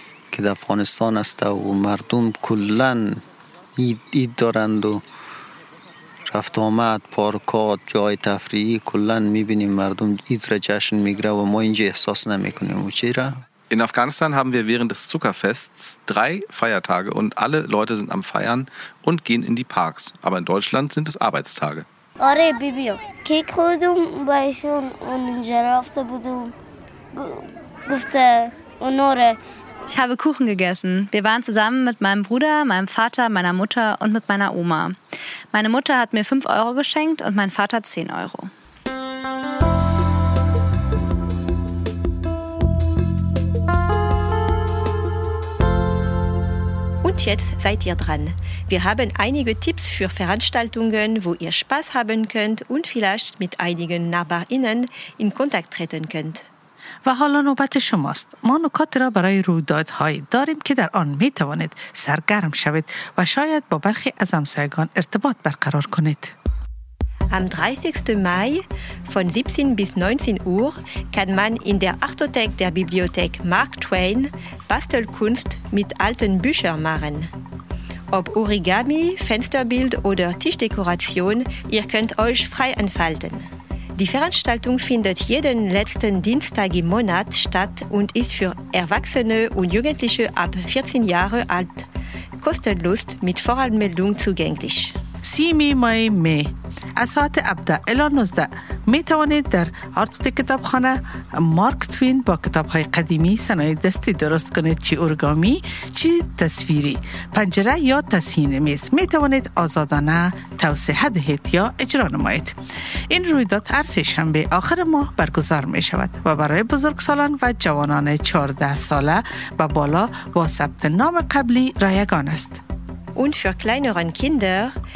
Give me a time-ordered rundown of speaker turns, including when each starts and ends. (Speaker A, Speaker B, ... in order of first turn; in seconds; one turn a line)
Speaker A: 0.3-3.2
Speaker A: 3.8-5.0
Speaker A: 6.2-13.4
Speaker B: 13.7-21.9
Speaker C: 22.2-26.5
Speaker C: 27.1-29.4
Speaker D: 29.9-35.0
Speaker D: 35.5-38.5
Speaker E: 47.0-56.4
Speaker F: 57.0-66.3
Speaker E: 67.3-77.3
Speaker E: 78.1-83.4
Speaker E: 84.0-91.9
Speaker E: 92.4-95.0
Speaker F: 95.2-112.6
Speaker F: 113.1-122.6
Speaker E: 123.1-124.8